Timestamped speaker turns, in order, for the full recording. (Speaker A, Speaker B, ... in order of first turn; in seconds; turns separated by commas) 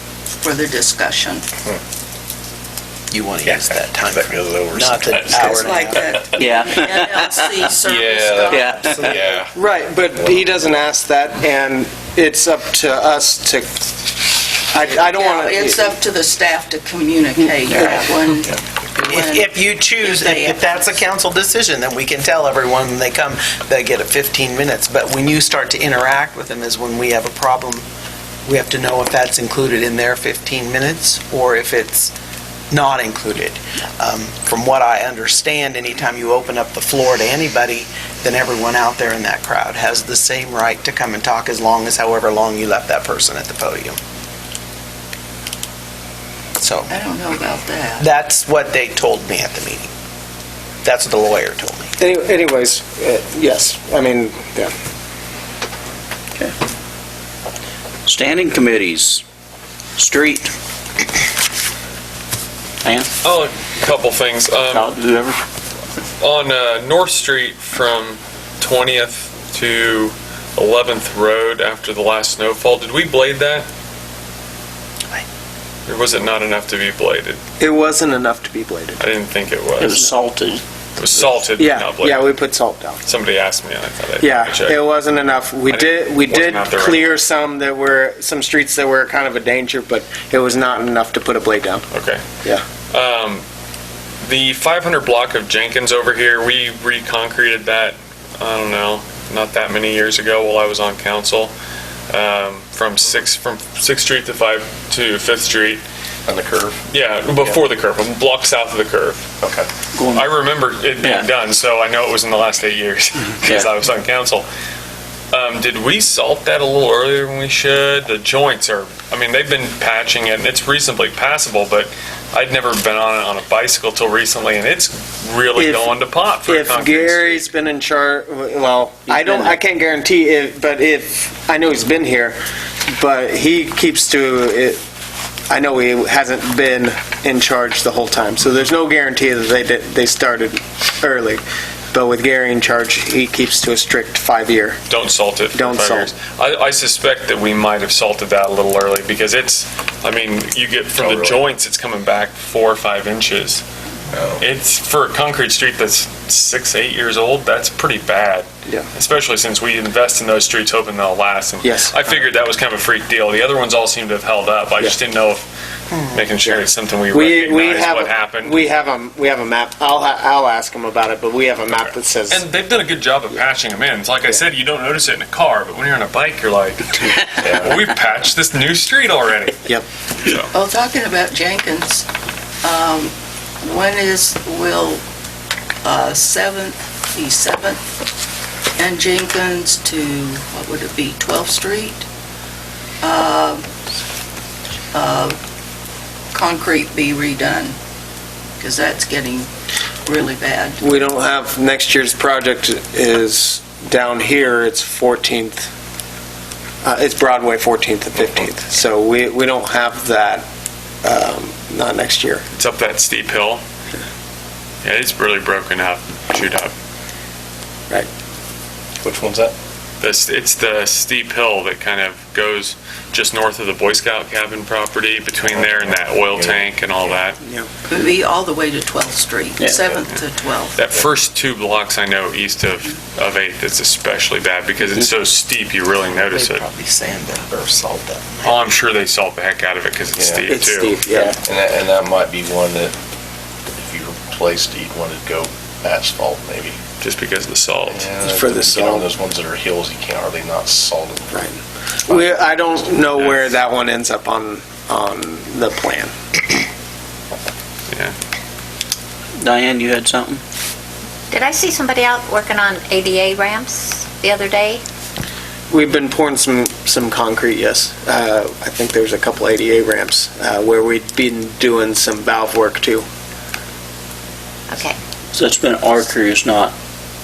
Speaker A: 0.4-1.5, Speaker B: 3.1-6.0, Speaker C: 3.4-6.3, Speaker A: 5.3-9.2, Speaker D: 6.4-7.6, Speaker C: 7.8-9.6, Speaker D: 8.5-9.1, Speaker E: 9.5-13.8, Speaker E: 14.7-15.9, Speaker A: 14.8-21.0, Speaker B: 19.0-27.9, Speaker B: 28.5-32.1, Speaker B: 32.7-44.0, Speaker B: 46.6-46.9, Speaker A: 46.9-48.1, Speaker B: 48.0-49.9, Speaker B: 50.8-51.9, Speaker E: 52.0-54.7, Speaker D: 58.1-59.2, Speaker D: 60.0-60.5, Speaker D: 62.8-63.1, Speaker F: 63.2-65.0, Speaker D: 64.7-65.4, Speaker F: 66.2-73.7, Speaker F: 75.9-77.4, Speaker E: 77.6-79.0, Speaker F: 79.0-80.1, Speaker D: 79.8-80.6, Speaker F: 81.0-82.3, Speaker E: 81.6-83.0, Speaker F: 83.1-84.8, Speaker E: 84.2-91.9, Speaker F: 85.7-87.2, Speaker F: 91.9-92.2, Speaker F: 92.9-93.4, Speaker F: 94.2-101.5, Speaker F: 102.1-105.8, Speaker C: 106.3-106.8, Speaker F: 106.9-109.3, Speaker C: 109.4-109.7, Speaker D: 109.9-110.3, Speaker F: 110.1-114.5, Speaker D: 111.0-111.3, Speaker D: 113.4-113.7, Speaker F: 115.3-127.5, Speaker E: 125.5-132.4, Speaker D: 129.1-129.6, Speaker E: 132.9-134.8, Speaker E: 135.5-144.8, Speaker F: 144.9-153.6, Speaker E: 145.5-146.1, Speaker C: 151.0-151.4, Speaker C: 154.1-154.4, Speaker F: 154.4-165.5, Speaker E: 161.6-162.1, Speaker F: 166.1-168.6, Speaker E: 167.1-172.5, Speaker F: 172.3-179.7, Speaker C: 177.4-177.8, Speaker F: 180.2-180.5, Speaker A: 180.5-182.1, Speaker A: 182.6-185.0, Speaker A: 185.8-187.8, Speaker A: 188.8-192.1, Speaker A: 193.0-193.7, Speaker A: 194.9-195.4, Speaker A: 196.3-197.8, Speaker A: 198.6-199.5, Speaker A: 200.1-200.8, Speaker E: 200.8-205.7, Speaker E: 206.8-210.4, Speaker E: 211.0-212.4, Speaker F: 212.5-213.6, Speaker F: 214.8-216.7, Speaker C: 219.0-219.5, Speaker F: 220.0-227.4, Speaker C: 225.4-227.2, Speaker E: 227.4-227.7, Speaker A: 227.9-230.8, Speaker D: 229.6-229.8, Speaker F: 230.8-236.6, Speaker B: 236.1-238.7, Speaker F: 238.4-241.0, Speaker C: 240.2-240.6, Speaker E: 240.5-241.4, Speaker C: 241.4-242.9, Speaker C: 243.8-246.8, Speaker F: 247.0-248.1, Speaker C: 247.9-251.5, Speaker E: 248.2-249.1, Speaker E: 251.3-256.1, Speaker C: 252.1-252.8, Speaker F: 253.2-253.6, Speaker D: 259.4-260.4, Speaker G: 261.3-264.8, Speaker E: 265.7-273.1, Speaker G: 274.7-275.0, Speaker D: 275.3-276.7